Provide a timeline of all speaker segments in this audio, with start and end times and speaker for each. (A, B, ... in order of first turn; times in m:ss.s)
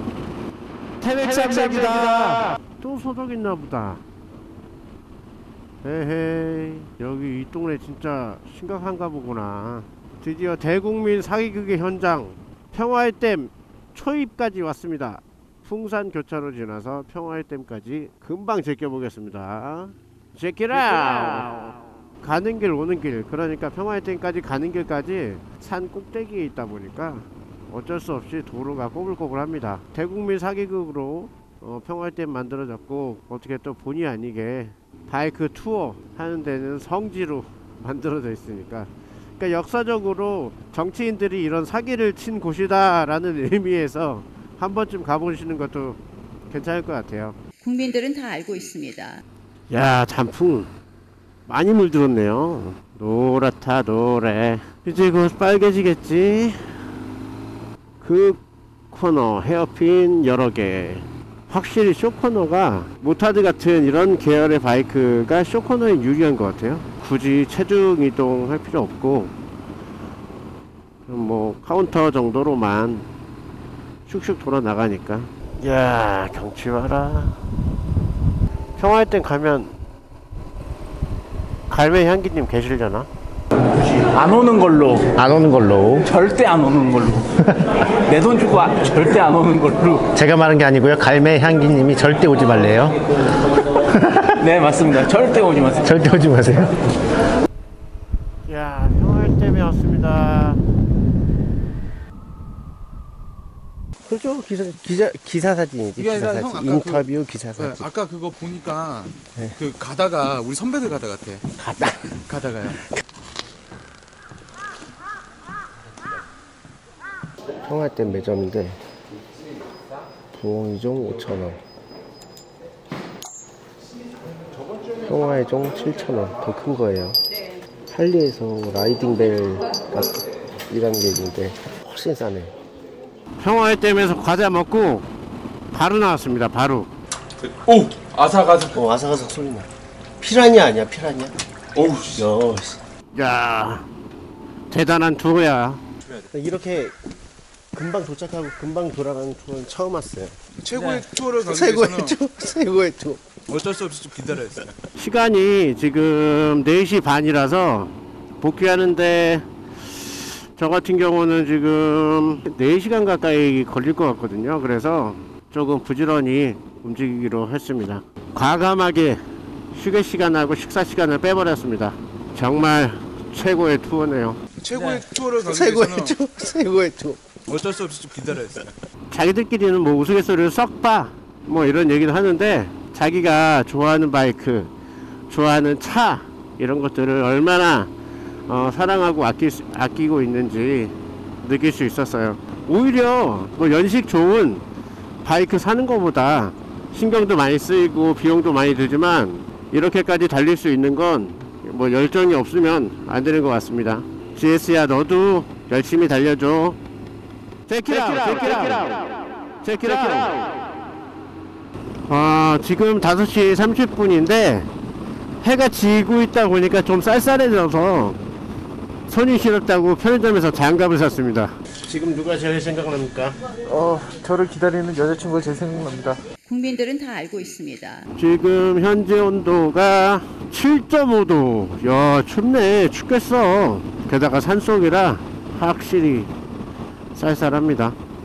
0:01.0-0:04.0 A
0:05.8-0:47.4 A
0:47.6-0:49.2 B
0:49.7-0:50.7 A
0:51.5-0:56.6 A
0:58.0-1:09.3 A
1:11.1-1:13.1 A
1:14.1-1:17.4 A
1:18.8-1:19.8 A
1:21.7-1:23.1 A
1:24.0-1:25.1 C
1:25.1-1:26.2 D
1:26.0-1:27.3 C
1:27.4-1:27.8 D
1:28.0-1:30.0 C
1:30.1-1:33.1 D
1:33.8-1:34.4 D
1:34.4-1:35.9 C
1:35.8-1:36.9 D
1:38.5-1:40.6 A
1:44.1-1:47.9 D
1:46.0-1:47.1 E
1:47.6-1:51.4 E
1:51.6-1:52.2 D
1:52.3-1:52.8 E
1:57.6-1:58.8 D
2:00.3-2:01.6 D
2:05.0-2:07.2 D
2:07.9-2:12.5 D
2:13.4-2:15.1 A
2:15.7-2:16.9 A
2:17.4-2:18.7 E
2:18.7-2:19.7 D
2:20.2-2:21.4 D
2:21.8-2:22.2 E
2:22.0-2:22.8 D
2:23.1-2:23.9 A
2:24.7-2:25.8 A
2:26.3-2:27.0 D
2:27.7-2:30.4 D
2:30.6-2:32.2 E
2:31.3-2:33.2 D
2:33.5-2:34.8 E
2:35.0-2:39.4 A
2:40.0-2:49.2 A
2:49.7-2:54.4 A
2:54.6-2:56.2 E
2:55.5-2:57.2 D
2:57.5-2:58.7 E
2:59.1-3:04.7 A
3:05.3-3:07.9 A
3:08.5-3:14.6 A
3:15.2-3:26.8 A
3:27.7-3:30.5 A
3:32.1-3:34.7 A
3:35.4-3:38.2 A
3:39.1-3:41.6 A
3:41.7-3:43.4 D
3:43.7-3:46.2 E
3:46.4-3:48.1 B
3:48.2-3:56.3 A
3:57.1-3:58.0 A